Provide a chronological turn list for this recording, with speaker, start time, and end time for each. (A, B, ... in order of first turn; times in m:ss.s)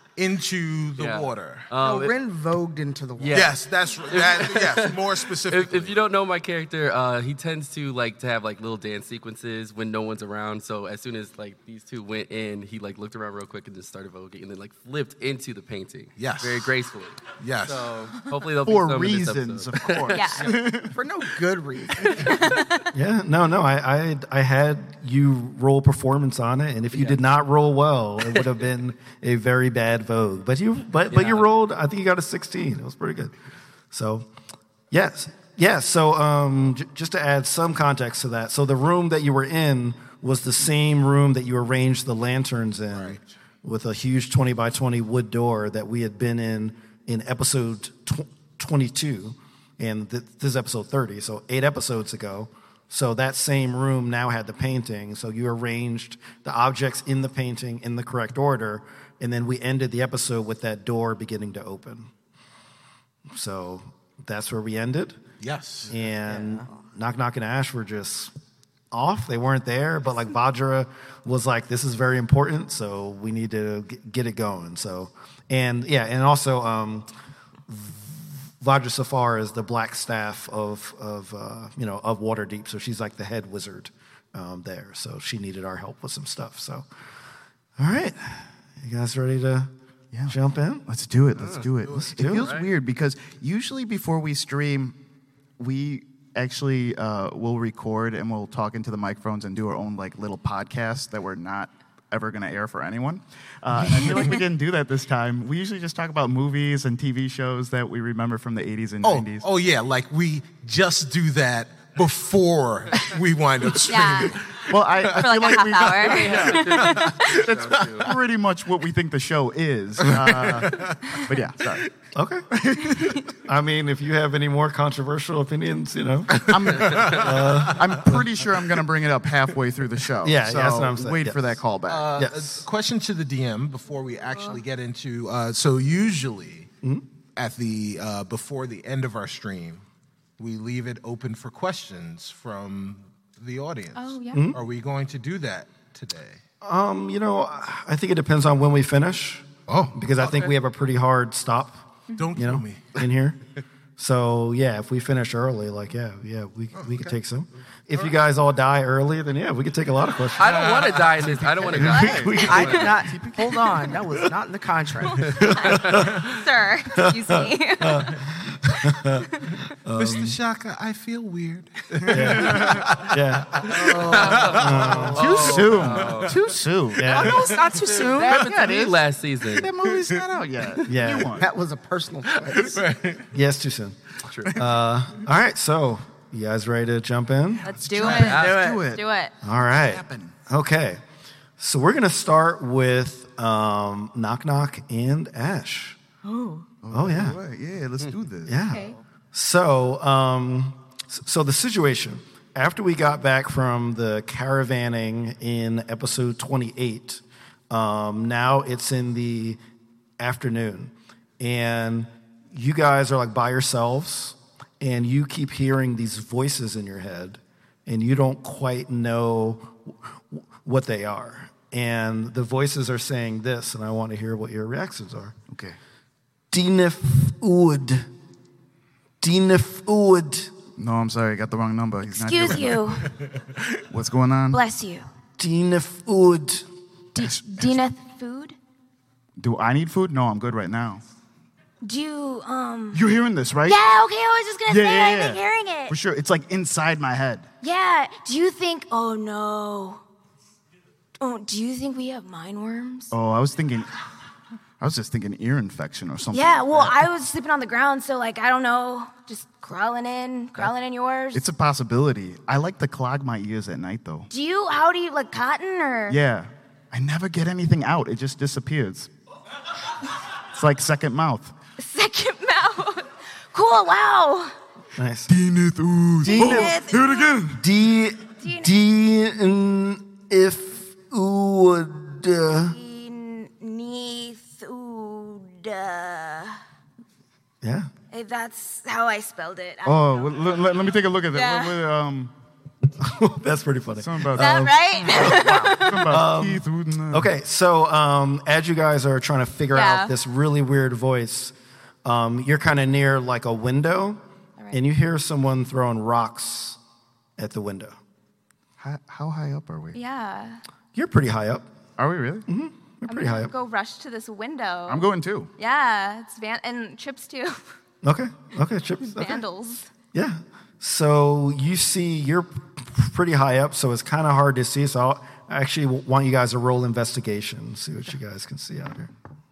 0:00.2-0:01.7 A
0:01.0-0:02.1 B
0:01.8-0:03.5 C
0:03.2-0:20.8 B
0:03.3-0:06.0 A
0:16.2-0:16.7 A
0:17.4-0:18.2 A
0:18.6-0:20.9 D
0:20.1-0:20.5 E
0:20.4-0:22.4 C
0:22.1-0:22.8 E
0:22.9-0:33.3 F
0:31.1-0:31.4 B
0:33.9-0:34.3 F
0:34.9-1:02.1 F
0:42.9-0:43.2 A
1:03.3-1:05.2 F
1:05.4-1:05.9 A
1:05.9-1:06.8 C
1:05.9-1:08.3 F
1:08.9-1:17.1 F
1:17.7-1:26.8 F
1:27.8-1:29.7 F
1:30.1-1:35.0 D
1:30.3-1:30.8 F
1:31.8-1:32.1 A
1:32.1-1:32.5 F
1:32.4-1:32.7 B
1:35.6-1:49.5 D
1:49.0-1:55.1 A
1:53.9-1:54.4 E
1:54.5-2:01.9 D
1:55.1-1:57.5 E
1:56.1-1:58.2 B
2:00.0-2:01.2 A
2:02.1-2:02.4 F
2:02.5-2:03.3 D
2:03.3-2:08.2 F
2:06.3-2:07.5 A
2:06.5-2:12.1 D
2:10.2-2:11.6 F
2:11.9-2:16.7 A
2:12.2-2:12.6 F
2:17.4-2:19.8 A
2:20.4-2:26.4 A
2:23.9-2:24.5 E
2:24.3-2:24.6 F
2:26.6-2:31.8 F
2:29.7-2:30.5 A
2:32.2-2:33.0 A
2:32.4-2:33.4 F
2:34.0-2:40.6 F
2:36.7-2:37.1 A
2:40.4-2:42.9 B
2:40.4-2:41.4 A
2:41.1-2:43.9 D
2:41.8-2:42.9 F
2:41.9-2:42.4 E
2:42.3-2:45.5 C
2:45.0-2:48.2 E
2:45.3-2:46.3 F
2:45.7-2:46.2 B
2:46.9-2:50.4 F
2:50.0-2:56.4 A
2:52.0-2:52.8 D
2:52.1-2:53.6 F
2:53.7-2:55.7 C
2:54.1-2:56.4 B
2:54.5-2:55.3 F
2:54.7-2:57.3 D
2:56.9-2:57.5 F
2:57.0-2:58.5 C
2:57.7-2:59.7 B
2:58.2-3:01.5 D
3:00.8-3:01.4 F
3:01.3-3:02.8 C
3:02.6-3:03.2 A
3:03.3-3:04.0 F
3:04.4-3:04.6 D
3:04.5-3:07.6 F
3:07.6-3:09.0 D
3:07.6-3:09.3 E
3:08.0-3:08.7 B
3:09.4-3:11.0 F
3:09.6-3:10.3 D
3:11.6-3:16.0 F
3:16.2-3:16.6 E
3:16.8-3:18.7 D
3:16.9-3:17.4 F
3:18.4-3:29.6 F
3:18.7-3:19.0 E
3:30.2-3:45.4 F
3:45.5-3:45.8 D
3:46.5-3:48.1 F
3:49.2-3:50.5 F
3:50.8-3:53.1 D
3:52.0-3:53.1 E
3:53.9-3:54.6 D
3:54.5-3:55.0 E
3:55.4-3:56.6 F
3:57.1-3:58.6 E
3:57.1-3:57.8 D
3:59.4-4:01.0 D
4:01.8-4:03.0 E
4:02.9-4:03.8 D
4:03.6-4:05.9 E
4:04.7-4:07.5 D
4:07.6-4:10.0 E
4:11.2-4:13.1 E
4:13.1-4:13.9 D
4:14.8-4:17.0 D
4:16.3-4:21.4 E
4:21.3-4:24.3 D
4:24.3-4:26.2 E
4:26.1-4:29.1 D
4:30.5-4:31.5 D
4:31.8-4:34.5 E
4:35.0-4:35.3 F
4:35.3-4:37.6 D
4:36.2-4:37.4 E
4:36.2-4:36.8 F
4:37.5-4:42.8 F
4:38.4-4:38.7 E
4:42.5-4:46.6 E
4:47.6-4:47.9 F
4:48.1-4:50.3 E
4:49.8-4:52.3 D
4:51.3-4:51.8 E
4:53.0-5:01.5 F
4:54.0-4:57.3 D
4:54.4-4:56.1 E
4:59.7-5:00.1 E
5:02.0-5:04.2 F
5:04.7-5:06.8 F
5:07.4-5:08.0 F
5:08.8-5:10.0 D
5:09.9-5:10.6 E
5:10.9-5:11.6 F
5:12.0-5:12.4 D
5:12.5-5:13.5 F
5:13.1-5:15.1 E
5:14.9-5:15.5 D
5:15.6-5:17.6 E
5:18.0-5:19.4 F
5:19.0-5:19.9 E
5:20.1-5:29.1 F